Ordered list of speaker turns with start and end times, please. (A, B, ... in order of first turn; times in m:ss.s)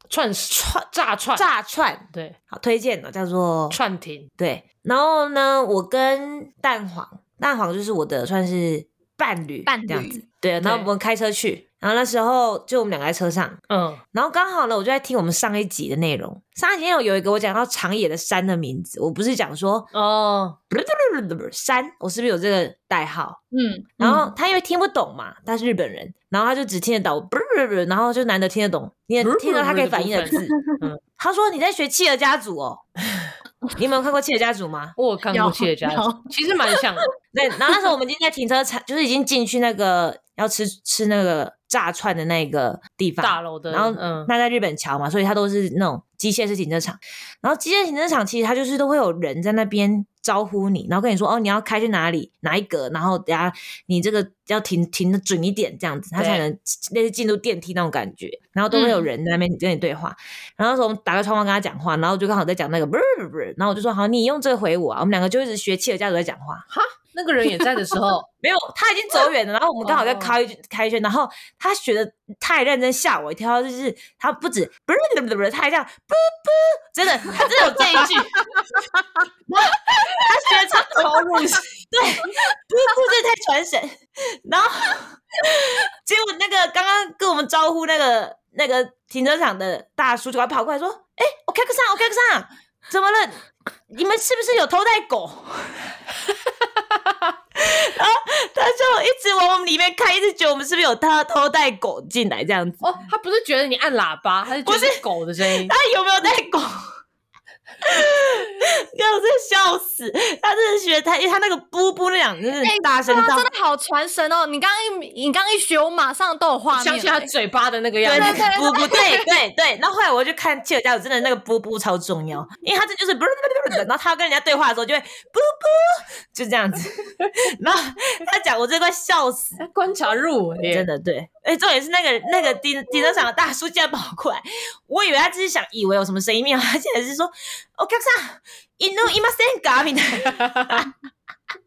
0:00.1-0:01.5 A
0:01.4-0:03.8 B
0:03.7-0:04.3 A
0:04.4-0:13.6 B
0:09.7-0:10.2 C
0:10.6-0:10.9 A
0:13.7-0:14.0 A
0:14.1-0:19.9 B
0:19.9-0:20.6 A
0:20.7-0:23.4 B
0:23.5-0:24.3 C
0:24.0-0:30.6 B
0:29.2-0:31.0 A
0:30.5-0:30.8 C
0:31.2-0:32.8 B
0:33.8-0:35.0 B
0:35.0-0:37.1 A
0:35.3-0:36.8 C
0:37.3-1:06.7 B
0:43.2-0:44.3 A
0:56.2-0:56.4 A
0:58.7-0:59.1 C
1:06.7-1:08.3 A
1:08.4-1:18.2 B
1:09.8-1:10.4 A
1:17.4-1:18.3 A
1:19.5-1:35.9 B
1:37.6-1:42.9 B
1:42.8-1:45.8 A
1:44.6-1:46.8 B
1:47.8-1:53.5 B
1:52.6-1:57.3 C
1:56.7-1:58.5 A
1:58.0-2:09.6 B
1:58.1-1:59.3 C
2:09.6-2:10.9 A
2:10.7-2:20.9 B
2:20.3-2:20.8 A